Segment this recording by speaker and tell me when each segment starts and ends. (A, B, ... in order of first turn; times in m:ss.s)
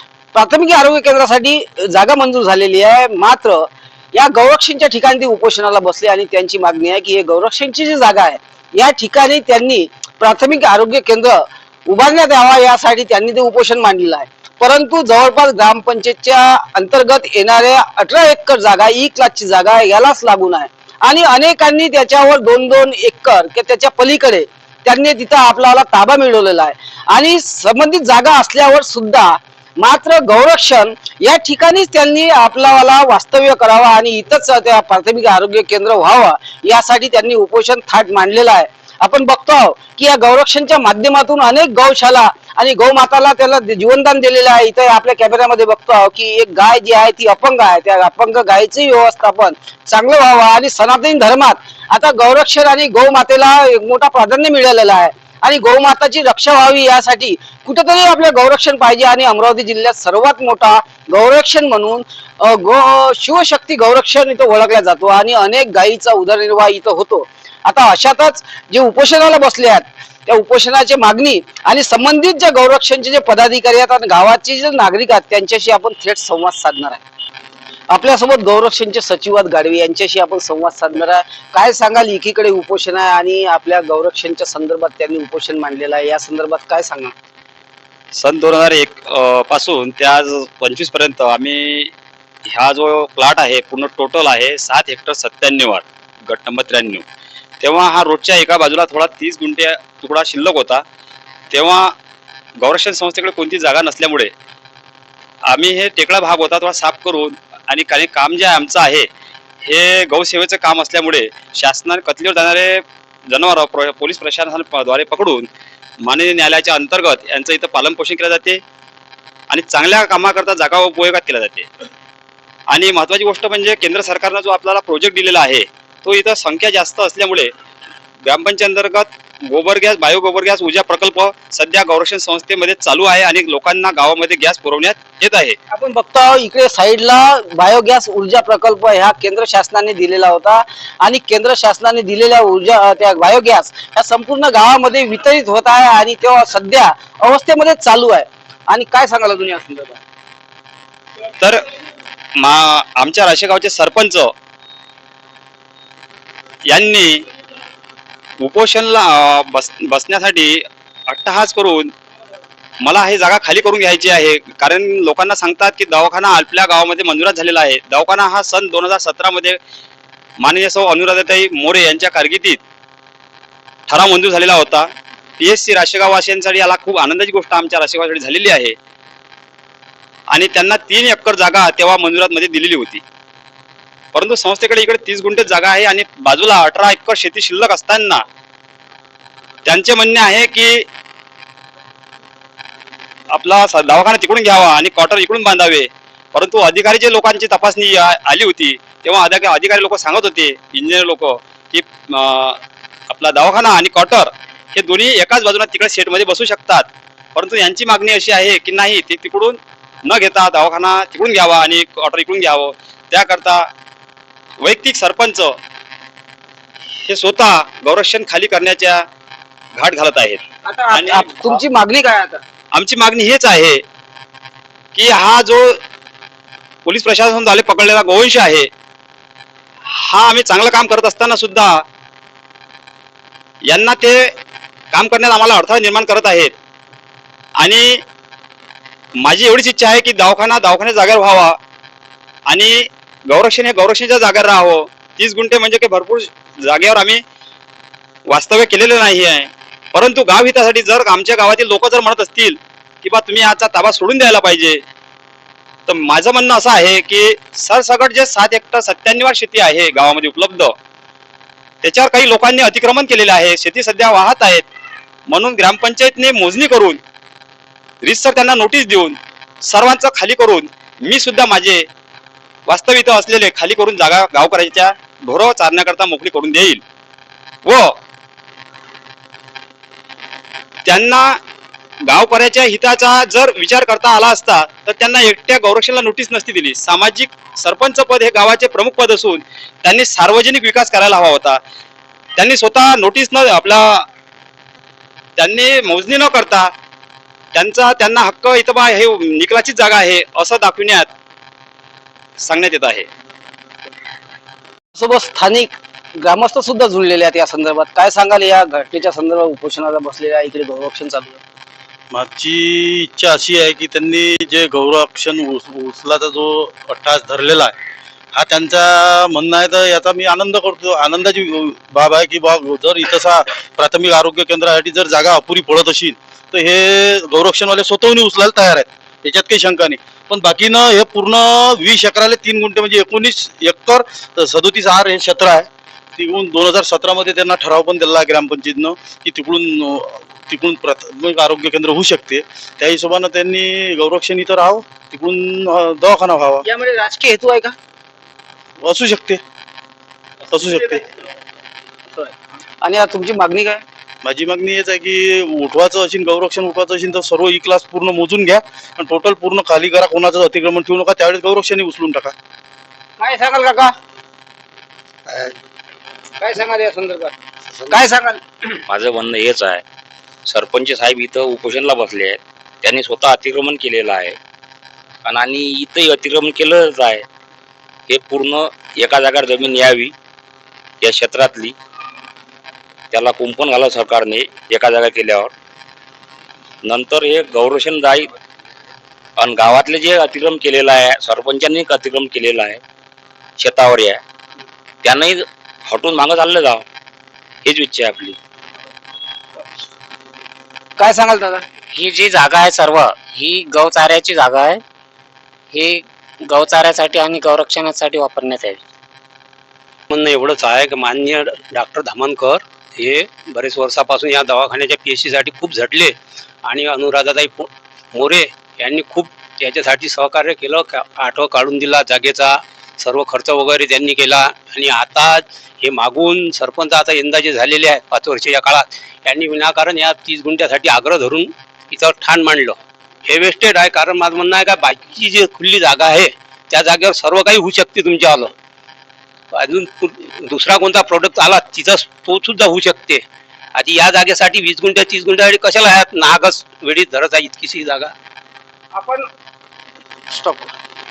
0:00.3-1:17.0 A
1:17.9-1:27.1 A
1:28.1-1:31.9 B
1:32.5-1:37.0 B
1:37.6-1:40.8 B
1:41.5-1:42.0 B
1:42.6-1:44.3 B
1:45.5-1:49.1 B
1:49.6-1:55.5 B
1:56.0-1:58.6 B
1:59.5-2:01.7 B
2:02.7-2:07.5 B
2:08.2-2:15.6 B
2:15.7-2:30.0 A
2:32.4-2:34.3 B
2:36.7-2:37.2 B
2:38.4-2:41.9 B
2:42.8-2:49.6 B
2:50.4-2:52.6 B
2:53.9-2:58.8 B
3:00.3-3:03.0 B
3:04.1-3:08.2 B
3:09.6-3:10.9 B
3:13.3-3:33.7 B
3:34.6-3:35.6 B
3:37.1-3:39.1 B
3:39.8-3:41.6 B
3:40.6-3:42.4 A
3:42.7-3:43.8 B
3:45.0-3:45.8 B
3:46.8-3:48.7 B
3:49.9-3:51.8 B
3:53.7-3:54.4 B
3:54.9-3:56.5 B
3:57.6-3:58.0 B
3:59.2-4:01.6 B
4:02.5-4:07.2 B
4:08.3-4:14.8 B
4:15.9-4:20.7 B
4:21.8-4:24.7 B
4:25.3-4:27.0 B
4:28.0-4:31.9 B
4:32.7-4:36.8 B
4:37.6-4:38.0 B
4:40.8-4:41.4 B
4:42.1-4:51.6 B
4:52.4-4:54.1 B
4:55.4-4:56.7 B
4:57.5-5:01.1 B
5:02.4-5:03.1 B
5:05.0-5:11.4 A
5:12.1-5:17.7 C
5:18.3-5:46.6 C
5:46.6-5:47.8 A
5:48.8-5:49.4 C
5:50.5-5:51.0 C
5:52.2-5:53.8 A
5:54.2-6:02.3 C
6:03.2-6:03.9 A
6:06.4-6:07.3 A
6:07.9-6:08.7 A
6:08.9-6:09.8 D
6:10.5-6:14.4 D
6:15.2-6:17.3 D
6:18.1-6:20.1 D
6:21.0-6:21.8 D
6:23.1-6:25.5 D
6:26.8-6:28.3 D
6:29.4-6:32.8 D
6:33.6-6:34.2 D
6:35.0-6:36.8 D
6:37.6-6:38.4 D
6:41.0-6:41.6 A
6:41.9-6:44.8 E
6:45.7-6:48.8 E
6:50.1-7:18.5 F
7:19.5-7:23.2 F
7:23.8-7:28.1 F
7:29.0-7:29.3 A
7:30.3-7:30.7 A